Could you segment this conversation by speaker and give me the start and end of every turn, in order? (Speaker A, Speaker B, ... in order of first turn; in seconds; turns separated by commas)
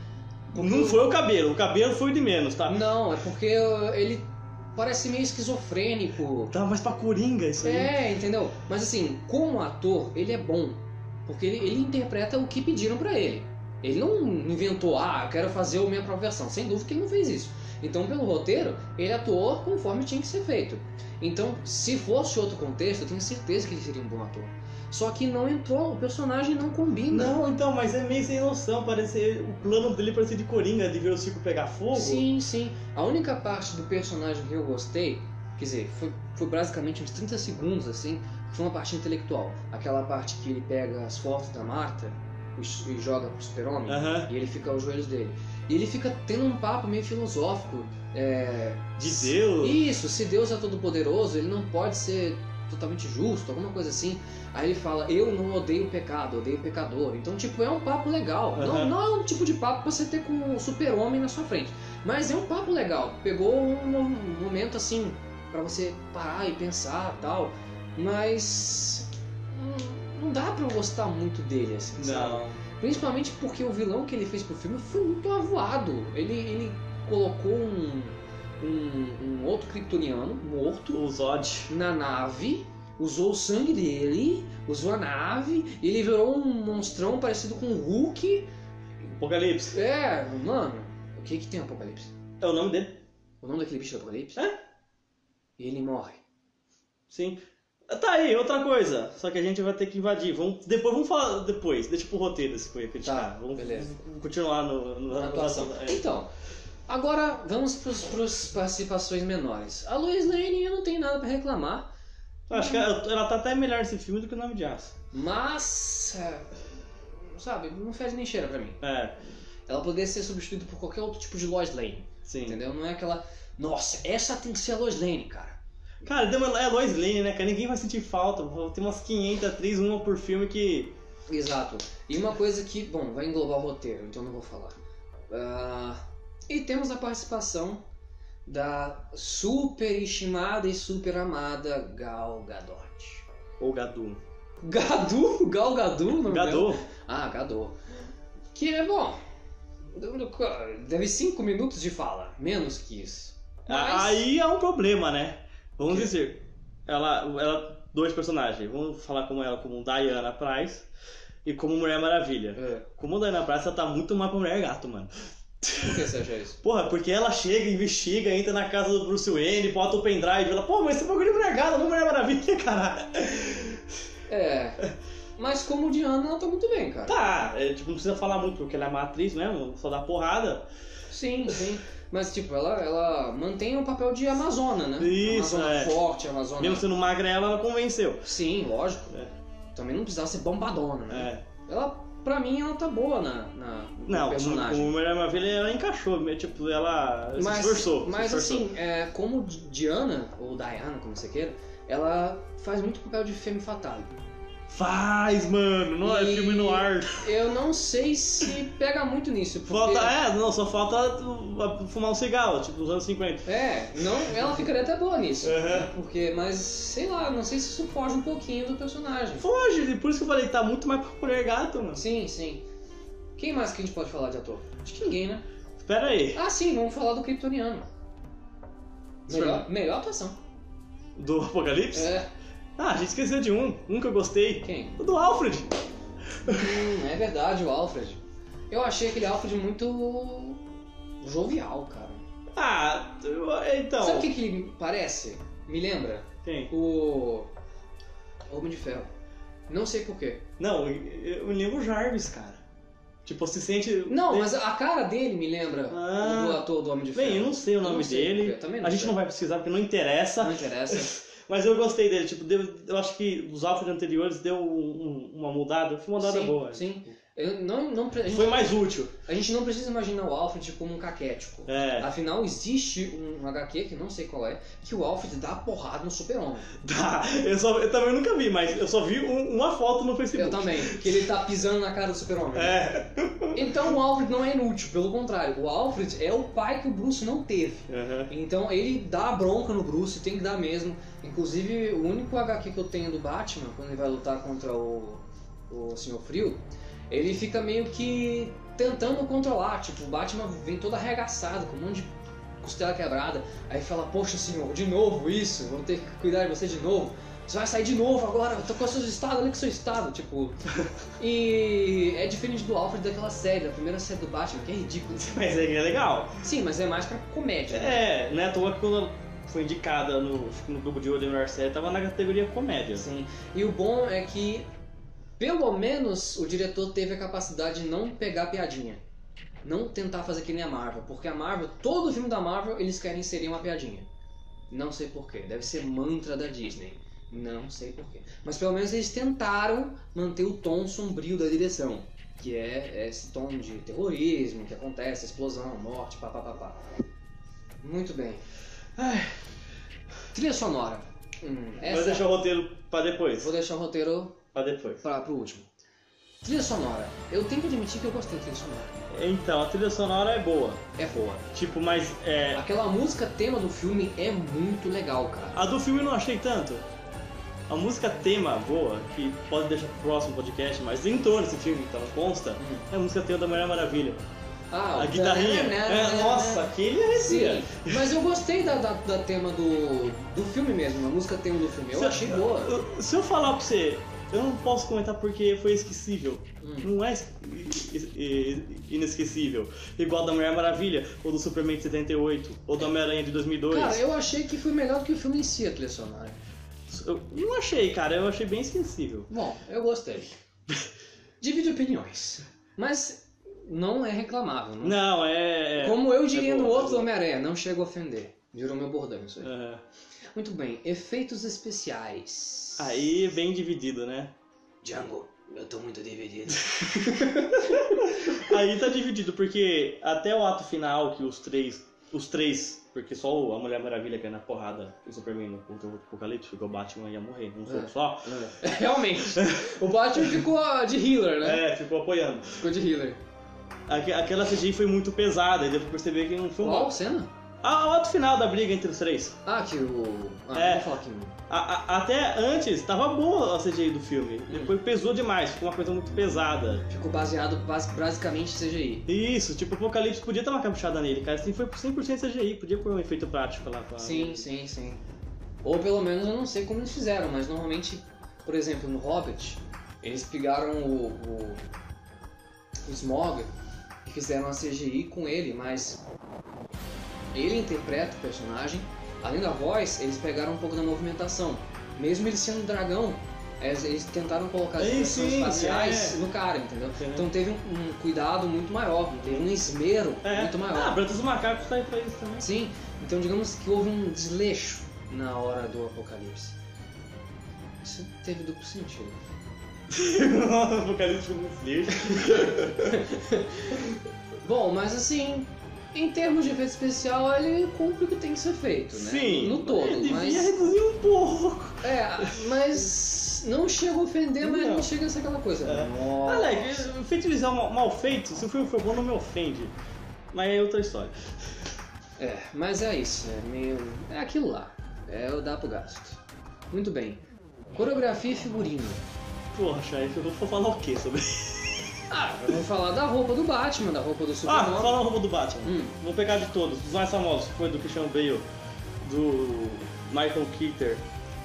Speaker A: 0.5-1.0, Speaker B: 0.6-2.8, Speaker A: 2.7-6.5, Speaker B: 6.5-7.9, Speaker A: 7.6-27.4, Speaker B: 27.1-32.3, Speaker A: 31.9-81.0, Speaker B: 43.9-44.3, Speaker B: 49.0-49.8, Speaker B: 58.5-58.9, Speaker B: 72.0-72.6, Speaker B: 80.9-81.7, Speaker A: 81.7-88.5, Speaker B: 89.1-89.8, Speaker A: 89.7-92.1, Speaker B: 92.4-93.0, Speaker A: 93.4-94.4, Speaker A: 95.6-96.2, Speaker B: 97.1-106.0, Speaker A: 103.0-103.9, Speaker A: 105.1-106.3, Speaker A: 106.9-111.9, Speaker B: 112.5-114.9, Speaker A: 112.5-112.9, Speaker A: 115.1-116.5, Speaker A: 117.3-118.8, Speaker B: 118.8-119.2, Speaker A: 119.7-125.6, Speaker B: 122.3-122.6, Speaker B: 126.0-130.9, Speaker A: 131.3-134.8, Speaker A: 135.3-137.8, Speaker A: 138.5-143.3, Speaker B: 143.6-144.2, Speaker A: 144.6-147.8, Speaker B: 146.3-146.8, Speaker A: 148.5-149.2, Speaker A: 149.9-154.3, Speaker B: 153.7-160.9, Speaker B: 161.4-166.1, Speaker A: 162.6-162.9, Speaker A: 165.8-166.6, Speaker B: 166.6-173.8, Speaker A: 174.3-174.8, Speaker A: 175.4-177.2, Speaker B: 177.1-180.7, Speaker A: 181.1-186.9, Speaker B: 185.0-186.0, Speaker B: 186.6-188.3, Speaker A: 188.2-189.1, Speaker A: 189.8-194.9, Speaker B: 191.1-191.4, Speaker B: 194.1-198.7, Speaker A: 197.4-204.1, Speaker B: 204.7-207.3, Speaker A: 206.0-210.1, Speaker B: 209.7-214.6, Speaker A: 213.5-219.5, Speaker B: 215.4-215.9, Speaker B: 219.4-222.0, Speaker A: 221.9-222.7, Speaker A: 223.4-225.4, Speaker B: 225.8-226.4, Speaker A: 226.3-227.9, Speaker A: 229.3-230.4, Speaker B: 229.3-229.7, Speaker B: 231.2-232.1, Speaker A: 231.9-232.3, Speaker B: 232.8-235.7, Speaker A: 234.6-235.0, Speaker B: 236.5-236.8, Speaker A: 236.5-240.6, Speaker A: 241.2-242.2, Speaker B: 242.6-244.3, Speaker A: 244.0-247.5, Speaker B: 246.4-246.7, Speaker A: 248.5-249.1, Speaker A: 249.7-250.4, Speaker B: 250.6-252.6, Speaker B: 253.3-254.5, Speaker A: 254.1-259.2, Speaker B: 255.9-266.9, Speaker A: 260.4-261.1, Speaker A: 266.2-276.7, Speaker B: 268.3-269.1, Speaker B: 271.7-272.1, Speaker B: 276.8-281.2, Speaker A: 280.3-282.8, Speaker B: 282.6-283.7, Speaker A: 283.5-310.6, Speaker B: 287.9-288.3, Speaker A: 311.2-315.4, Speaker B: 315.2-316.4, Speaker A: 316.4-318.0, Speaker B: 317.7-323.1, Speaker A: 322.9-324.7, Speaker A: 325.4-329.0, Speaker A: 329.6-334.1, Speaker A: 334.7-346.8, Speaker A: 347.8-348.4, Speaker B: 349.0-349.4, Speaker A: 350.3-352.3, Speaker B: 351.8-353.5, Speaker A: 353.4-354.4, Speaker B: 354.5-355.0, Speaker A: 355.0-355.7, Speaker A: 356.4-359.1, Speaker B: 359.1-360.8, Speaker A: 361.0-361.5, Speaker B: 361.5-362.6, Speaker A: 362.5-365.6, Speaker B: 365.5-366.9, Speaker B: 367.7-374.2, Speaker A: 372.6-372.9, Speaker A: 374.7-382.7, Speaker B: 375.0-378.1, Speaker B: 381.9-394.0, Speaker A: 386.6-386.9, Speaker A: 393.7-396.4, Speaker B: 396.9-399.3, Speaker A: 399.3-400.3, Speaker A: 401.4-405.0, Speaker B: 404.8-407.1, Speaker A: 405.8-409.5, Speaker B: 409.4-409.8, Speaker A: 410.4-413.1, Speaker B: 412.8-414.3, Speaker A: 414.8-418.4, Speaker B: 416.8-430.4, Speaker A: 427.7-431.6, Speaker B: 431.4-432.7, Speaker A: 432.6-433.2, Speaker B: 433.9-436.9, Speaker A: 436.6-437.3, Speaker B: 437.6-439.4, Speaker A: 439.4-441.4, Speaker B: 440.5-440.9, Speaker B: 441.5-446.8, Speaker A: 444.5-444.8, Speaker A: 446.9-449.1, Speaker B: 449.1-454.5, Speaker A: 454.0-455.0, Speaker A: 455.6-461.6, Speaker A: 462.9-463.5, Speaker A: 464.0-466.0, Speaker A: 467.3-481.0, Speaker B: 474.8-476.2, Speaker B: 477.0-477.3, Speaker B: 479.1-479.6, Speaker B: 480.2-482.5, Speaker A: 482.4-486.6, Speaker A: 487.8-489.2, Speaker B: 489.9-493.0, Speaker A: 492.8-493.8, Speaker A: 494.4-500.5, Speaker B: 498.9-502.4, Speaker A: 501.8-506.9, Speaker B: 504.4-504.9, Speaker B: 505.6-509.7, Speaker B: 510.3-511.2, Speaker A: 512.2-516.2, Speaker A: 516.7-517.2, Speaker A: 517.7-519.0, Speaker B: 519.5-522.7, Speaker A: 522.1-525.0, Speaker B: 524.5-528.5, Speaker A: 525.6-525.9, Speaker B: 529.0-531.1